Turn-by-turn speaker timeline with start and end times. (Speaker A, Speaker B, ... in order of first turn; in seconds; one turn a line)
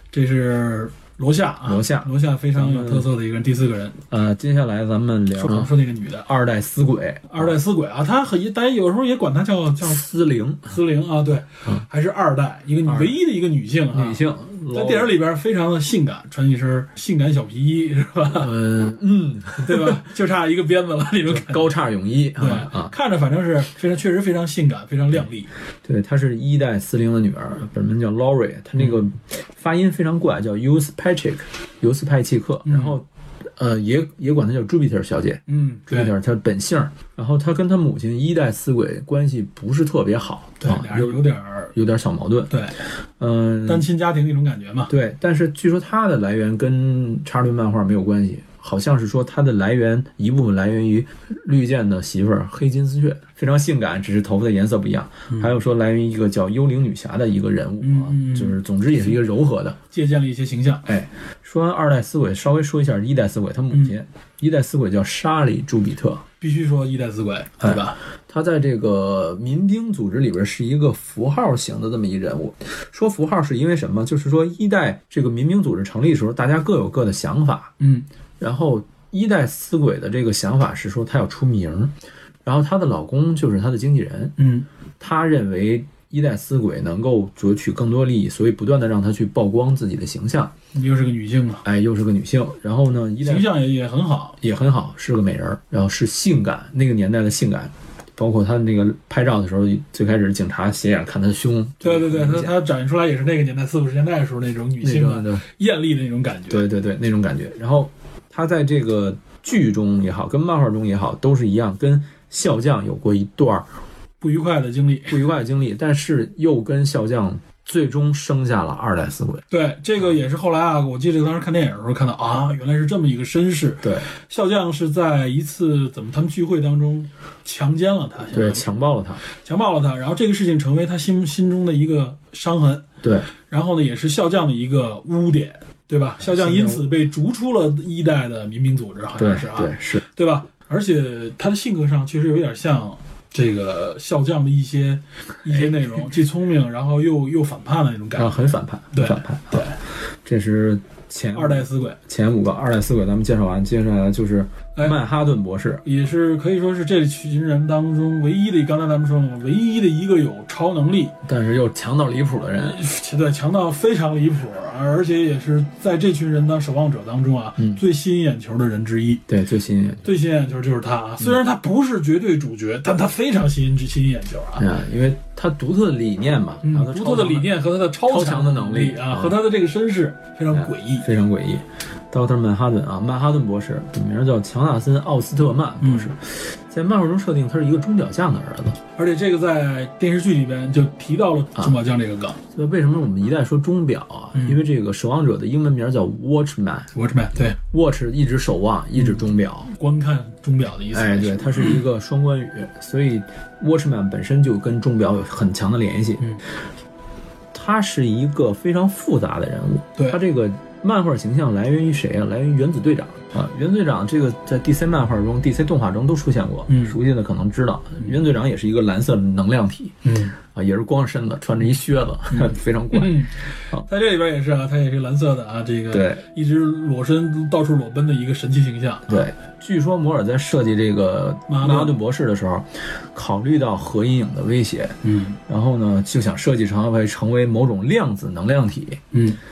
Speaker A: 0.1-4.0
Speaker B: 1.6-3.1
Speaker B: 4.1-5.7
Speaker A: 5.3-6.3
Speaker B: 6.2-7.5
Speaker A: 7.3-10.0
Speaker B: 9.8-10.8
Speaker A: 10.6-14.2
Speaker B: 12.8-13.1
Speaker B: 13.9-15.1
Speaker A: 14.7-18.5
Speaker B: 18.3-20.0
Speaker A: 19.6-21.7
Speaker B: 21.3-22.9
Speaker A: 22.4-25.5
Speaker B: 25.8-33.0
Speaker A: 32.6-33.0
Speaker B: 33.5-41.2
Speaker A: 35.5-36.1
Speaker A: 40.6-41.7
Speaker B: 41.7-42.5
Speaker A: 42.5-42.8
Speaker B: 43.2-43.9
Speaker A: 43.6-44.9
Speaker B: 44.9-59.8
Speaker A: 57.8-58.6
Speaker A: 59.9-60.9
Speaker B: 60.9-66.2
Speaker A: 66.4-68.0
Speaker B: 67.6-77.7
Speaker A: 77.8-78.0
Speaker B: 78.4-81.9
Speaker B: 82.4-84.3
Speaker A: 84.4-84.7
Speaker B: 85.0-90.5
Speaker A: 90.7-91.6
Speaker B: 91.6-93.5
Speaker A: 93.2-94.4
Speaker B: 94.4-102.5
Speaker A: 101.8-106.7
Speaker B: 104.8-105.4
Speaker B: 106.5-113.7
Speaker A: 114.2-115.2
Speaker B: 115.1-119.4
Speaker A: 119.5-128.6
Speaker B: 123.8-124.1
Speaker B: 128.3-129.2
Speaker A: 129.4-132.8
Speaker B: 133.0-133.3
Speaker A: 133.4-148.3
Speaker B: 136.2-136.8
Speaker B: 139.2-140.0
Speaker B: 148.2-149.7
Speaker A: 148.9-149.8
Speaker B: 150.2-155.8
Speaker A: 151.3-152.0
Speaker A: 155.8-161.2
Speaker B: 161.2-162.8
Speaker A: 162.6-169.2
Speaker B: 169.3-170.0
Speaker A: 170.0-174.6
Speaker B: 174.6-179.4
Speaker A: 176.6-181.1
Speaker B: 180.5-188.8
Speaker A: 185.8-186.1
Speaker A: 188.9-192.4
Speaker B: 192.5-196.9
Speaker A: 196.9-197.6
Speaker B: 197.6-199.7
Speaker A: 199.7-201.8
Speaker B: 200.9-206.3
Speaker B: 207.5-223.8
Speaker A: 216.7-216.9
Speaker A: 220.0-220.3
Speaker A: 222.3-229.2
Speaker B: 225.9-226.2
Speaker B: 229.1-239.0
Speaker A: 231.5-231.9
Speaker A: 235.0-235.4
Speaker A: 239.1-239.4